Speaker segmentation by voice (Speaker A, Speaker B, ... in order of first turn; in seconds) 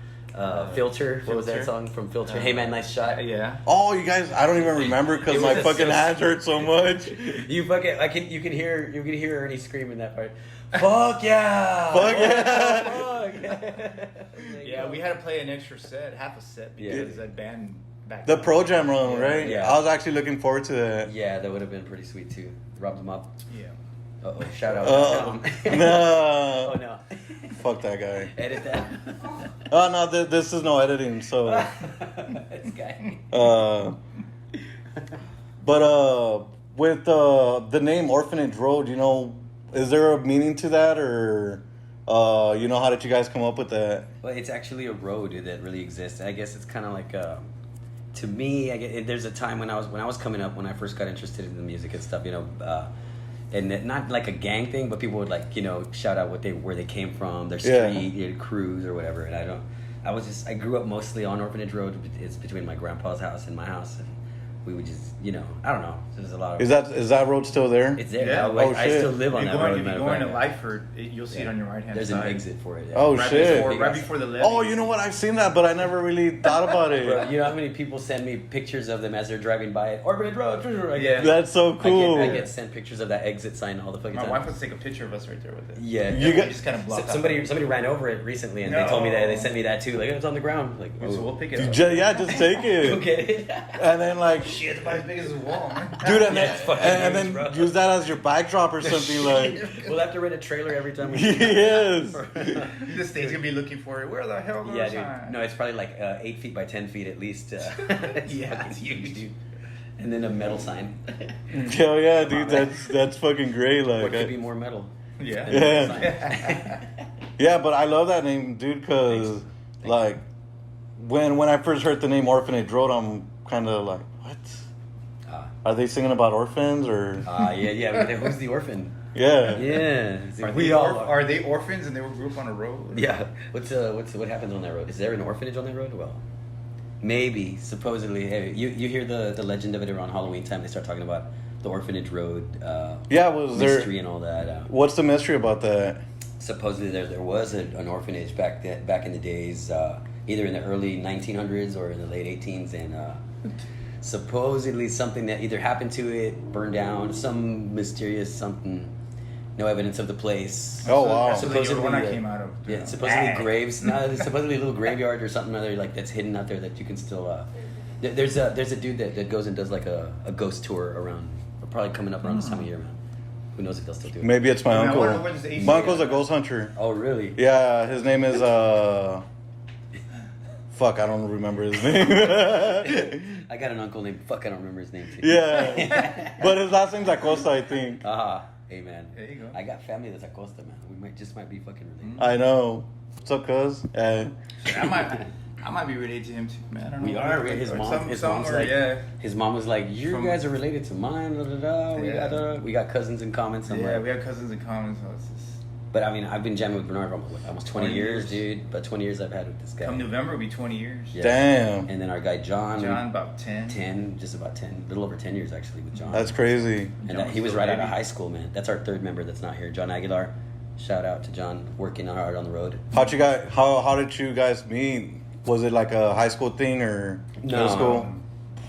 Speaker A: 0.3-3.2, 4.8-6.2, 6.7-15.1, 16.8-17.2, 19.4-19.8, 21.0-23.4, 24.2-27.6, 28.3-29.6, 31.4-33.3, 44.2-47.5, 48.1-52.9, 53.5-66.7, 68.0-70.4, 71.3-74.1, 76.9-84.5, 85.8-91.3, 92.3-93.8, 96.0-97.7, 98.8-103.3, 104.6-109.4, 110.0-112.9, 114.0-116.9, 125.3-125.5, 127.2-131.2, 132.9-136.2, 137.0-144.7, 146.4-153.2, 154.0-158.9, 159.6-173.0, 173.6-174.5, 175.6-176.0, 176.8-177.4, 182.5-186.5, 188.0-192.3, 197.0-204.1, 205.9-210.1, 211.1-213.0, 213.7-216.4, 217.1-222.9, 227.4-228.1
Speaker B: 0.5-1.7, 2.2-3.7, 14.6-19.6, 23.5-23.8, 24.8-25.2, 68.2-72.4, 73.1-74.9, 80.9-81.3, 82.2-82.5, 84.1-87.5, 88.6-89.5, 91.0-92.5, 94.4-96.2, 102.7-105.4, 107.7-109.2, 115.2-116.8, 130.4-133.2, 160.8-164.3, 172.2-172.7, 174.7-176.3, 189.2-189.6, 192.0-192.3, 194.6-199.1, 200.1-200.4, 201.9-202.5, 203.7-205.6, 207.7-208.4, 209.8-211.2, 212.8-213.8, 216.9-218.0, 227.5-228.2
Speaker C: 3.7-7.5, 11.9-13.1, 18.3-21.1, 24.8-26.8, 27.5-28.3, 29.7-31.7, 33.3-34.0, 35.6-44.1, 57.6-58.1, 66.6-69.1, 72.9-73.8, 74.4-77.3, 81.2-82.5, 86.1-86.5, 91.6-93.0, 93.8-94.6, 96.0-99.8, 101.0-102.8, 111.5-114.3, 115.5-116.2, 117.4-120.2, 121.0-124.7, 125.6-127.3, 129.2-129.6, 143.1-143.9, 144.7-146.0, 160.8-161.5, 174.2-176.8, 177.4-179.2, 180.7-183.4, 185.2-188.0, 192.2-194.3, 211.2-211.9, 216.1-217.0, 222.9-228.1